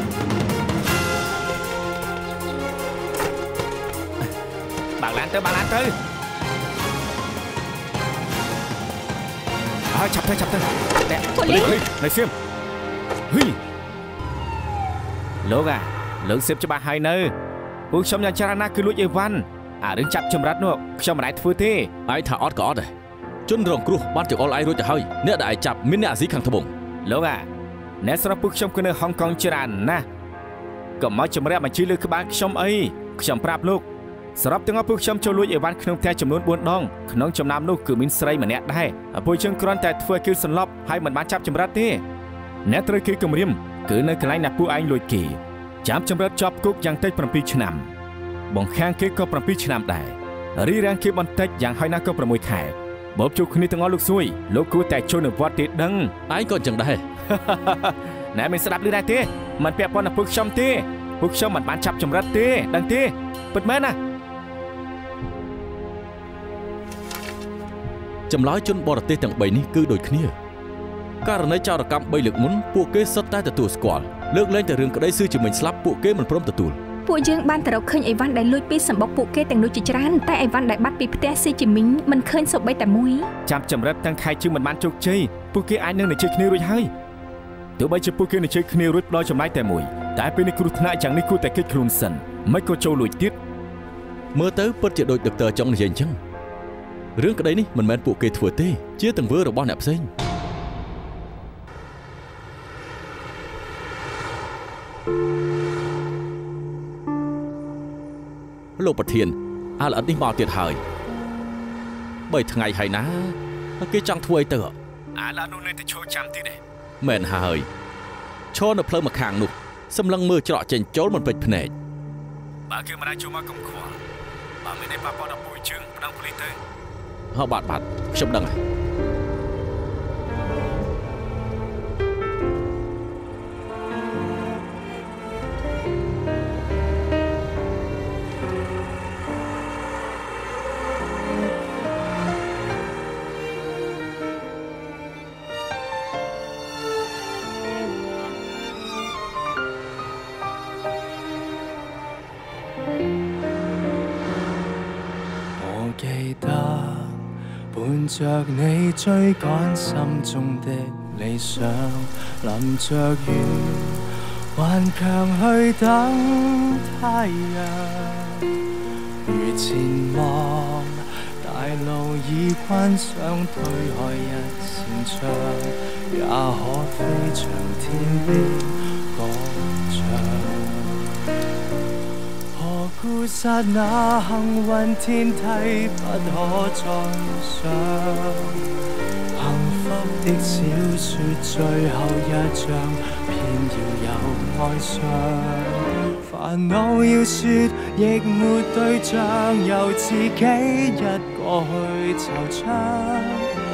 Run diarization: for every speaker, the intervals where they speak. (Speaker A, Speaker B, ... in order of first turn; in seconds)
Speaker A: 5.0-5.9, 9.9-12.3, 13.3-13.6, 15.4-17.3, 17.9-21.9, 27.1-27.5, 28.0-30.1, 31.0-42.0, 42.7-47.9, 48.5-56.1, 57.3-64.0, 83.5-86.9, 87.8-93.4, 115.2-116.6, 122.7-124.0, 124.6-126.6
Speaker B: 11.3-11.8, 77.1-83.3
Speaker C: 22.1-22.9, 23.5-26.7, 56.3-57.0, 68.3-70.3, 71.2-76.8, 94.3-96.2, 97.2-100.1, 108.8-110.8, 112.3-114.8, 117.0-117.7, 118.5-121.7, 127.3-128.6
Speaker D: 155.6-168.5, 169.2-181.1, 182.5-188.6, 189.3-203.6